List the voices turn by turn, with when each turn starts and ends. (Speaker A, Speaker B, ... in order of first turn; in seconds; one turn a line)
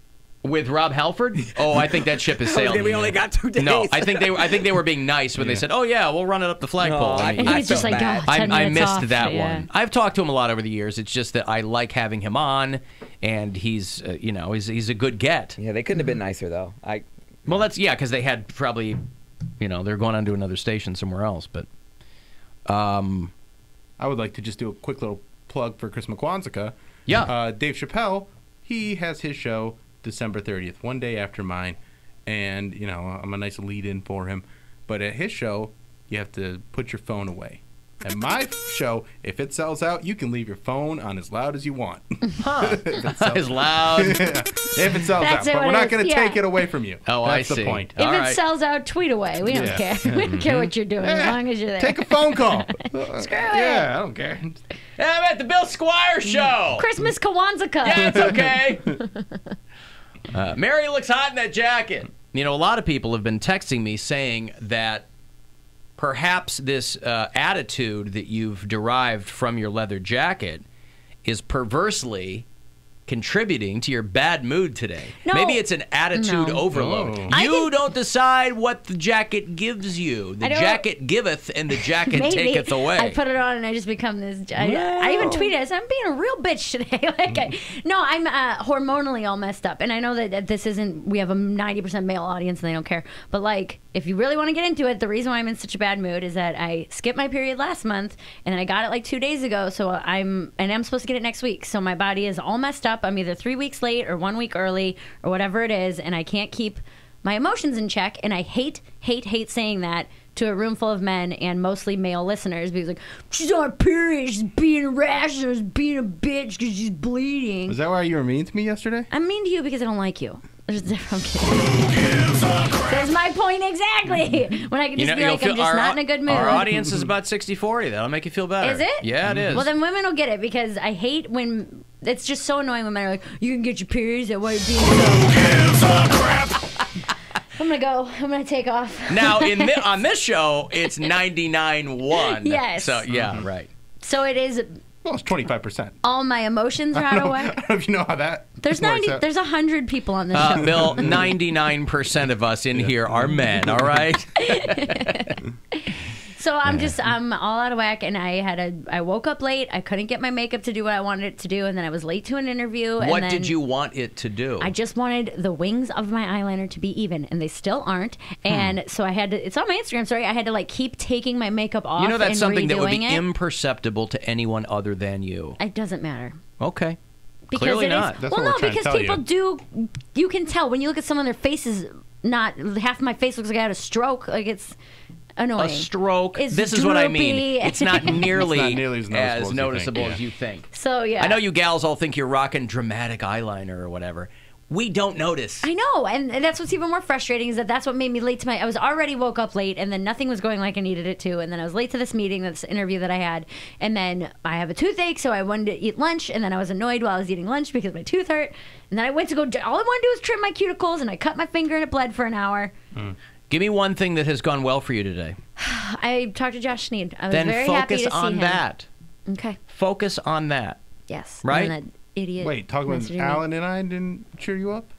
Speaker A: 0.4-15.6
Speaker B: 2.4-4.7
Speaker C: 5.4-5.6
Speaker B: 6.8-8.3
Speaker D: 7.3-9.7
Speaker B: 15.6-17.6
Speaker A: 17.5-19.0
Speaker A: 19.6-21.7
Speaker A: 22.7-23.3
Speaker C: 24.0-47.9
Speaker A: 27.1-27.3
Speaker A: 42.4-44.7
Speaker D: 45.2-46.4
Speaker A: 47.1-48.4
Speaker D: 48.0-53.9
Speaker C: 49.5-54.6
Speaker A: 55.0-56.9
Speaker D: 56.8-58.3
Speaker A: 57.8-59.0
Speaker A: 60.3-65.1
Speaker A: 66.0-70.6
Speaker A: 71.2-72.5
Speaker A: 73.1-83.2
Speaker D: 75.2-75.6
Speaker D: 76.2-76.6
Speaker C: 76.7-77.3
Speaker D: 77.3-77.7
Speaker D: 80.4-80.8
Speaker D: 81.8-117.8
Speaker A: 84.6-85.5
Speaker C: 117.7-119.1
Speaker D: 119.1-126.7
Speaker A: 125.0-129.7
Speaker C: 126.3-127.1
Speaker D: 128.6-136.5
Speaker C: 129.2-129.7
Speaker D: 137.6-139.8
Speaker A: 139.1-143.7
Speaker D: 142.2-143.1
Speaker C: 143.1-143.5
Speaker D: 144.0-144.8
Speaker C: 145.0-146.0
Speaker D: 146.0-147.6
Speaker C: 146.9-149.2
Speaker D: 148.6-151.0
Speaker A: 150.3-155.4
Speaker C: 150.6-151.3
Speaker C: 152.8-154.0
Speaker D: 154.4-163.5
Speaker A: 156.7-156.9
Speaker A: 163.0-164.7
Speaker D: 164.6-173.2
Speaker A: 168.5-168.8
Speaker A: 172.0-175.6
Speaker D: 175.6-176.4
Speaker A: 176.6-177.0
Speaker D: 177.5-184.8
Speaker A: 177.5-178.2
Speaker C: 178.1-179.2
Speaker D: 185.4-188.4
Speaker A: 185.6-195.7
Speaker C: 188.1-190.2
Speaker D: 190.7-191.4
Speaker D: 195.6-212.7
Speaker A: 213.5-215.4
Speaker D: 215.6-218.6
Speaker A: 217.3-218.9
Speaker D: 219.3-219.6
Speaker A: 219.7-220.8
Speaker D: 221.1-223.4
Speaker A: 221.4-221.7
Speaker C: 222.4-224.9